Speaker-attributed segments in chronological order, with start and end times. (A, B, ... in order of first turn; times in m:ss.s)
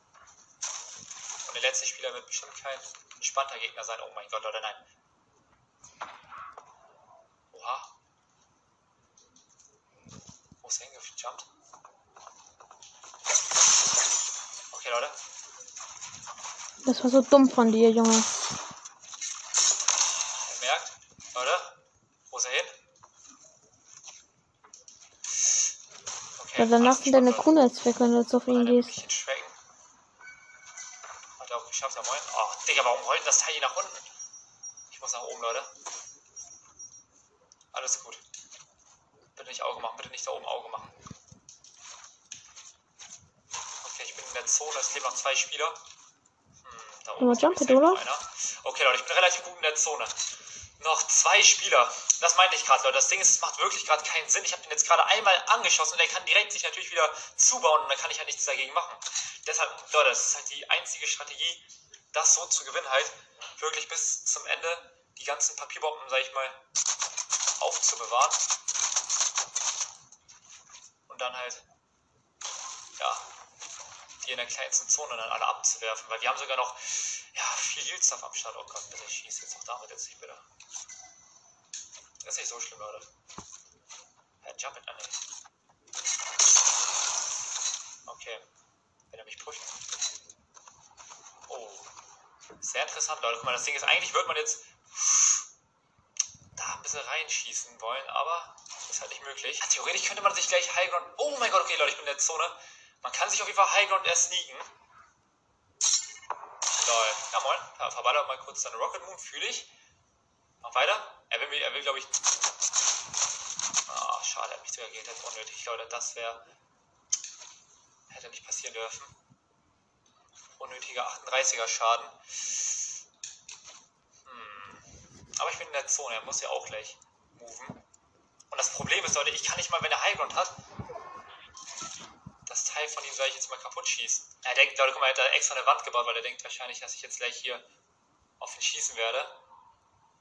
0:01.4-0:04.8 A
0:07.5-0:07.9 A
0:10.6-0:11.5 A
0:14.7-0:15.2 A
0:16.8-0:18.3 B
0:20.4-0:21.8 A
0:22.3-0:22.8 A
0:26.4-0:27.6 A
0:26.6-0:28.9 B
0:28.5-0:29.5 A
0:31.4-0:34.1 A
0:34.9-0:35.7 A
0:37.7-0:38.2 A
0:39.3-0:41.0 A
0:43.8-0:45.8 A
0:46.6-0:50.2 A
0:47.2-0:48.0 B
0:50.8-1:06.6 A
1:07.6-1:08.4 A
1:11.1-1:11.6 A
1:13.0-1:13.3 A
1:14.2-1:20.4 A
1:22.2-1:23.1 A
1:24.4-1:25.2 A
1:28.0-1:28.4 A
1:29.1-1:29.7 A
1:31.5-1:31.9 A
1:32.6-1:35.5 A
1:36.6-1:44.7 A
1:46.7-1:49.7 A
1:50.6-1:52.1 A
1:53.9-1:56.4 A
1:58.1-1:59.1 A
2:00.6-2:02.8 A
2:04.2-2:07.8 A
2:08.5-2:10.5 A
2:12.4-2:17.6 A
2:18.4-2:19.4 A